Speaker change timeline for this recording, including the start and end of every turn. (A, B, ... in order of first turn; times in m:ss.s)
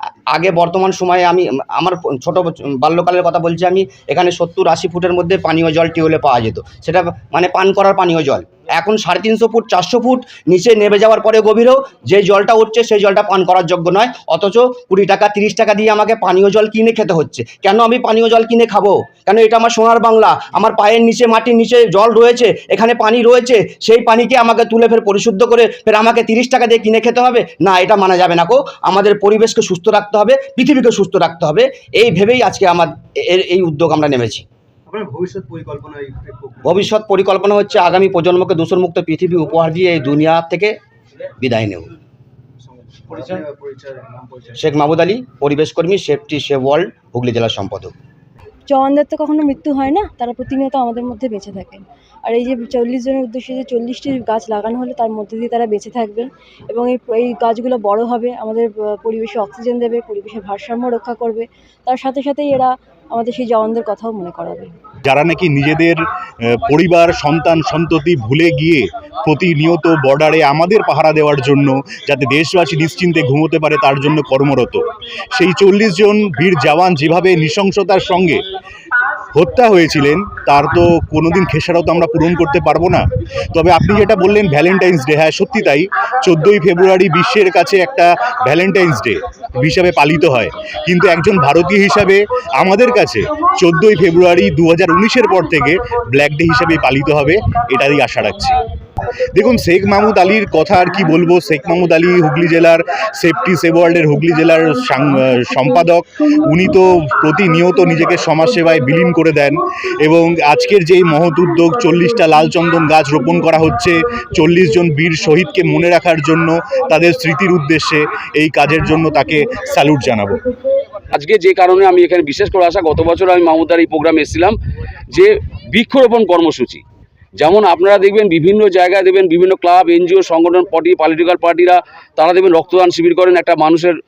0:00.3-0:34.4 A
0:34.9-0:36.9 B
0:36.7-0:40.7 A
0:41.4-0:41.9 A
0:42.6-0:44.7 B
0:44.6-0:48.0 A
0:48.7-1:04.7 C
1:05.0-1:06.0 D
1:06.5-1:18.4 D
1:19.3-1:38.6 D
1:39.3-2:00.4 D
2:01.1-2:04.6 E
2:05.1-2:06.8 E
2:07.4-2:13.9 E